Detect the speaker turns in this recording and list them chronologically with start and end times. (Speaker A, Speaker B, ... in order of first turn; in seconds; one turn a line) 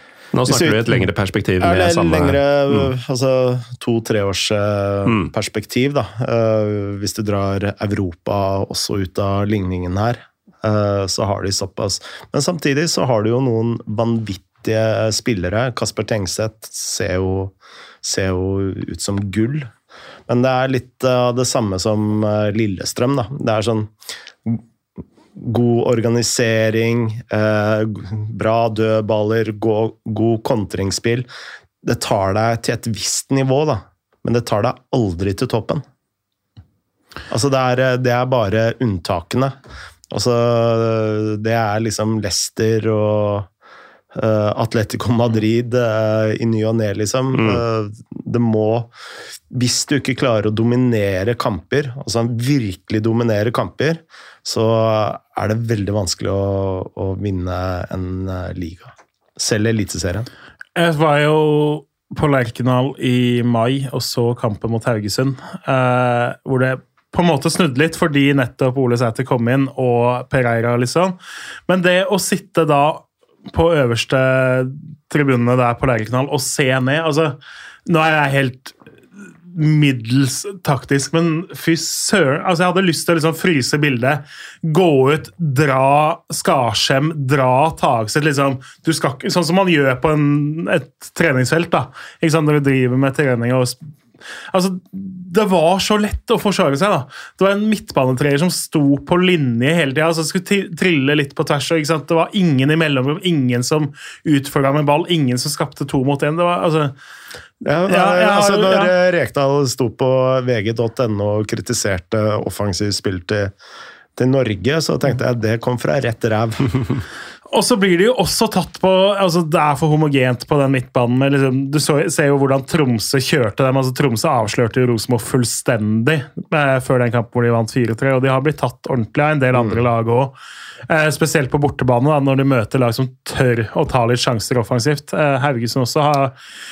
Speaker A: 0.3-2.9
Speaker B: 0.5-1.1
Speaker B: 1.6-19.7
Speaker A: 5.1-5.3
Speaker B: 20.3-23.9
Speaker B: 25.4-31.3
Speaker B: 31.8-35.8
Speaker B: 37.3-39.5
Speaker B: 40.1-43.5
Speaker B: 44.1-48.9
Speaker A: 47.4-47.6
Speaker B: 49.5-60.3
Speaker C: 60.8-71.2
Speaker C: 71.7-78.8
Speaker C: 79.5-93.8
Speaker C: 94.5-107.0
Speaker B: 107.6-113.5
Speaker C: 107.9-108.9
Speaker B: 114.2-117.0
Speaker C: 117.5-130.3
Speaker C: 130.9-136.3